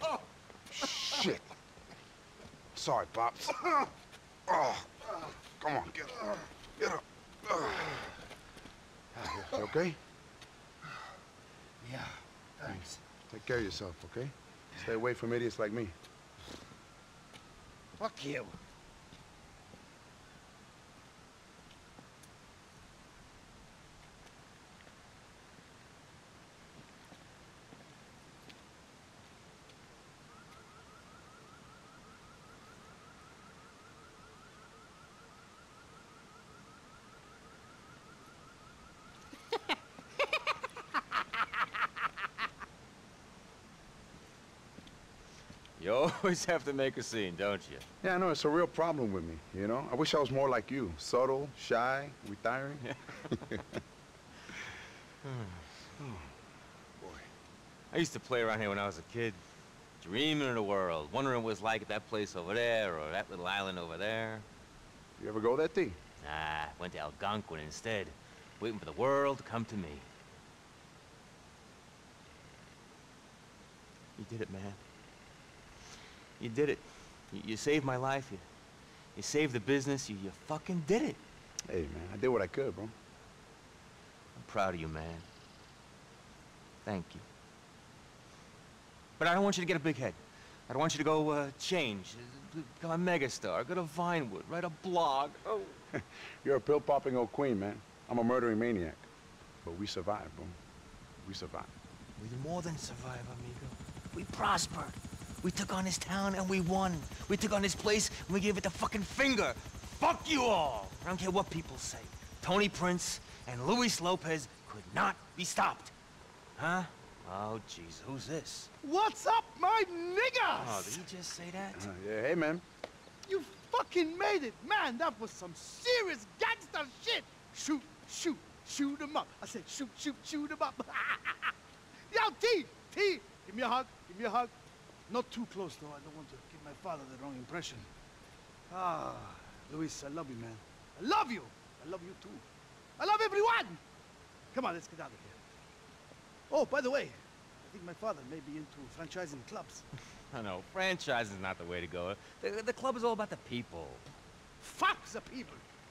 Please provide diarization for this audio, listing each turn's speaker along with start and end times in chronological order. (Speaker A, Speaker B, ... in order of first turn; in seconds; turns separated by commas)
Speaker A: 0.7-1.5, Speaker A: 2.8-3.9, Speaker A: 4.5-4.9, Speaker A: 5.6-7.9, Speaker A: 9.2-10.0, Speaker A: 12.7-15.9, Speaker B: 18.1-18.5, Speaker C: 45.8-47.9, Speaker A: 48.0-53.6, Speaker C: 55.2-56.2, Speaker A: 57.0-57.3, Speaker C: 57.9-59.4, Speaker C: 60.0-64.5, Speaker A: 65.2-66.0, Speaker C: 66.2-70.1, Speaker C: 74.2-74.8, Speaker C: 76.4-78.5, Speaker C: 79.2-81.2, Speaker A: 81.7-82.9, Speaker C: 84.3-85.3, Speaker C: 86.8-87.2, Speaker C: 89.2-95.8, Speaker A: 96.0-99.1, Speaker A: 99.7-100.6, Speaker A: 101.2-101.7, Speaker C: 102.2-115.9, Speaker C: 116.6-118.7, Speaker B: 118.8-121.0, Speaker C: 120.5-121.9, Speaker A: 121.8-122.7, Speaker B: 123.3-131.5, Speaker B: 132.1-134.5, Speaker B: 135.1-137.9, Speaker B: 138.7-142.4, Speaker B: 143.0-143.8, Speaker B: 144.5-145.4, Speaker B: 146.5-149.8, Speaker C: 150.3-154.1, Speaker B: 154.6-155.6